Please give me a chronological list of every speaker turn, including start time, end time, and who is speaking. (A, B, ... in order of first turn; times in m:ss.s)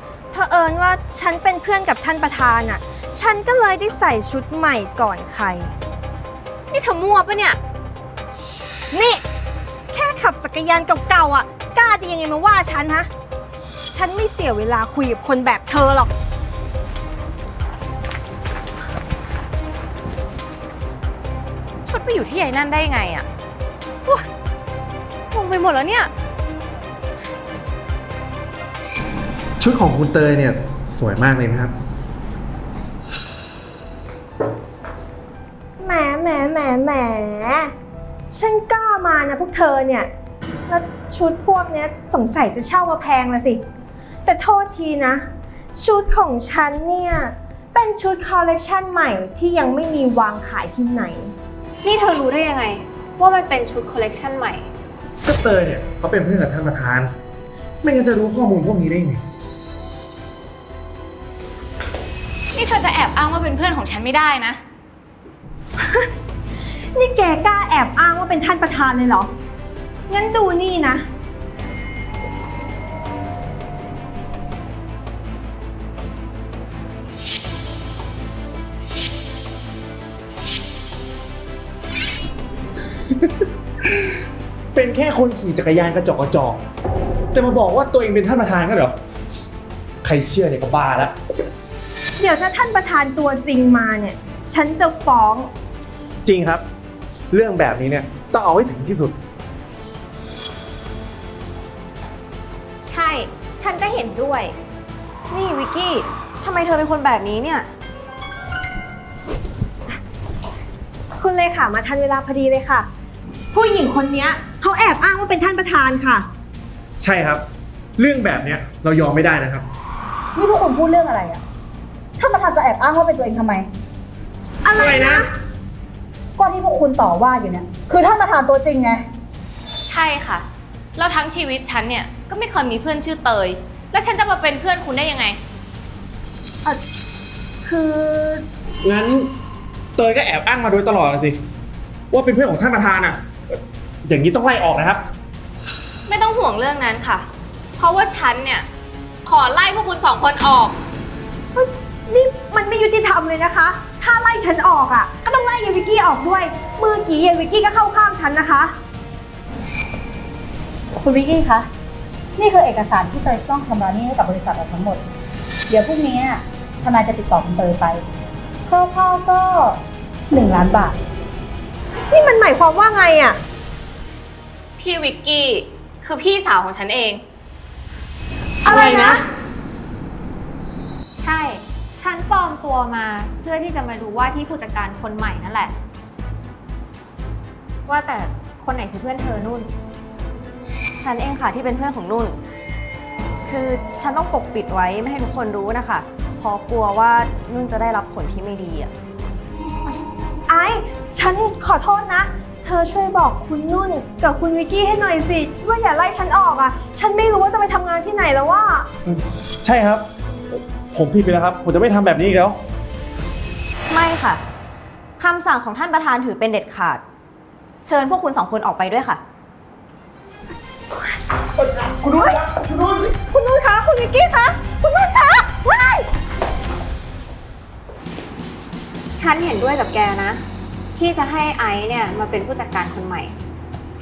0:00.3-0:05.7 A
0:06.7-0:07.6 B
0:08.9-0:09.2 A
0:09.9-0:13.1 A
0:13.9-0:16.1 A
0:21.8-0:23.3 B
0:25.3-0:26.1 B
0:29.6-0:31.7 C
0:35.8-0:37.7 A
0:38.3-0:40.1 A
0:40.7-0:43.6 A
0:44.2-0:51.3 A
0:51.8-0:54.7 D
0:55.2-0:57.1 C
0:57.8-0:59.2 C
1:02.5-1:04.6 B
1:06.9-1:09.3 A
1:10.1-1:11.0 A
1:24.7-1:26.6 C
1:27.3-1:28.9 C
1:30.0-1:31.1 C
1:32.2-1:35.5 A
1:36.2-1:36.6 C
1:37.3-1:39.2 C
1:42.9-1:44.5 D
1:45.3-1:47.7 E
1:51.2-1:52.9 A
1:53.5-1:56.2 A
1:57.0-1:57.4 C
1:58.0-1:59.6 C
2:00.4-2:01.4 F
2:02.2-2:03.7 F
2:04.6-2:05.3 A
2:04.7-2:05.3 C
2:06.4-2:09.0 F
2:09.8-2:15.4 B
2:17.6-2:18.4 F
2:18.8-2:19.3 C
2:20.0-2:21.4 C
2:22.1-2:23.2 C
2:24.0-2:25.0 C
2:26.1-2:28.6 B
2:29.2-2:30.8 B
2:31.5-2:38.7 A
2:41.0-2:41.7 F
2:42.4-2:45.0 F
2:45.7-2:48.0 F
2:48.7-2:49.8 F
2:50.3-2:51.0 F
2:52.1-2:53.4 A
2:54.8-2:57.2 B
2:58.6-2:59.2 C
2:58.6-2:59.2 A
3:01.2-3:05.7 D
3:07.9-3:09.7 D
3:11.0-3:12.4 E
3:13.4-3:18.9 E
3:20.5-3:28.9 A
3:29.0-3:30.0 C
3:30.9-3:32.6 C
3:33.9-3:34.4 E
3:35.2-3:37.0 E
3:37.8-3:39.2 E
3:41.6-3:43.2 C
3:42.1-3:42.4 A
3:43.3-3:46.0 A
3:49.1-3:50.4 D
3:50.9-3:53.3 D